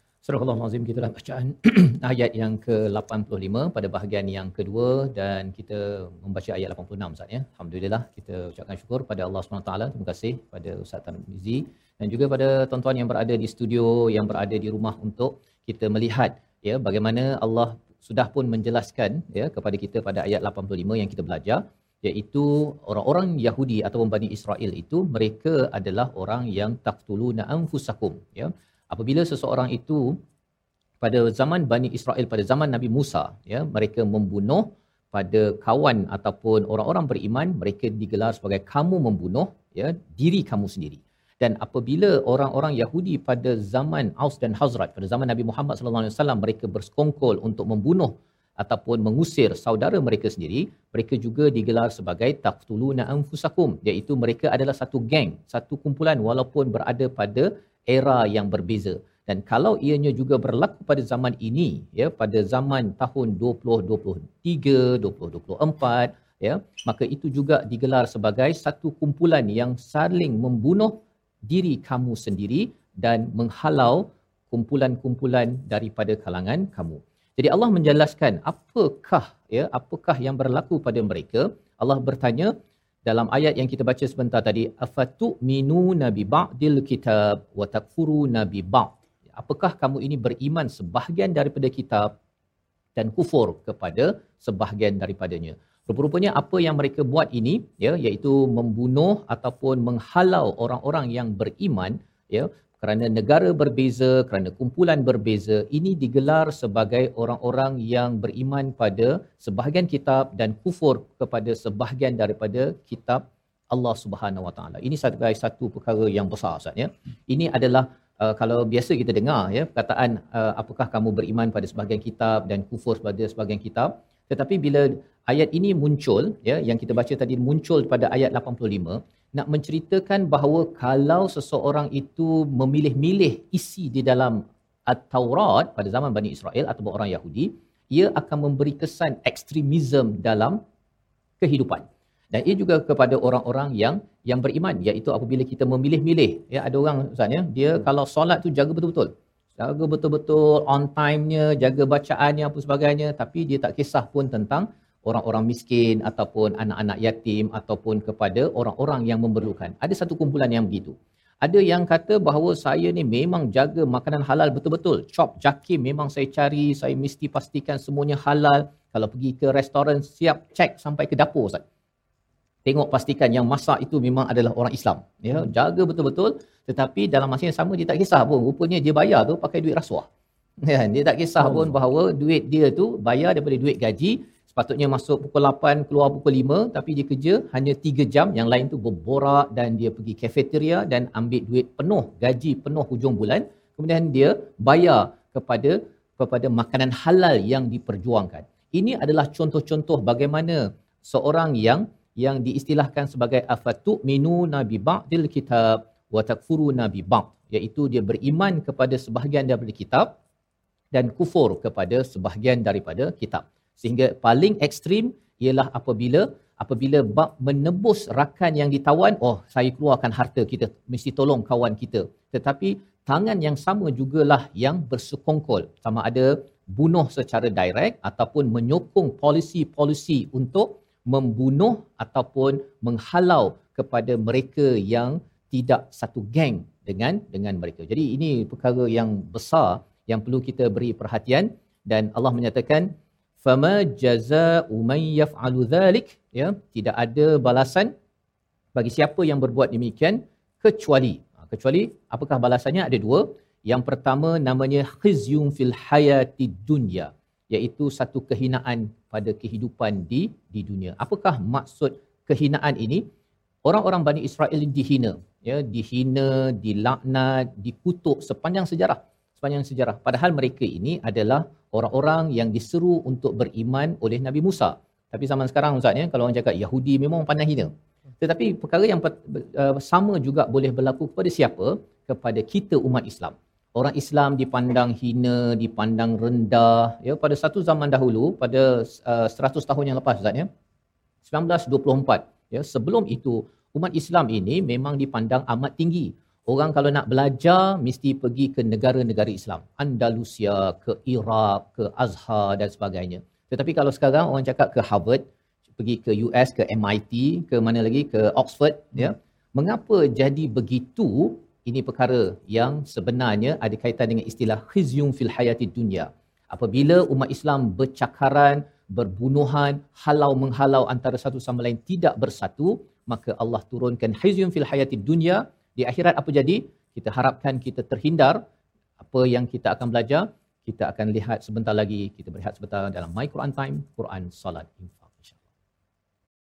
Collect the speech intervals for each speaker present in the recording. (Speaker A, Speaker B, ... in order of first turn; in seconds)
Speaker A: 0.2-30.2, 31.0-82.5, 83.0-92.1, 93.0-140.6, 141.4-171.6, 172.7-180.1, 180.6-210.1, 210.9-247.9, 248.8-263.1, 263.6-290.5, 291.2-305.2, 305.8-328.4, 329.0-335.4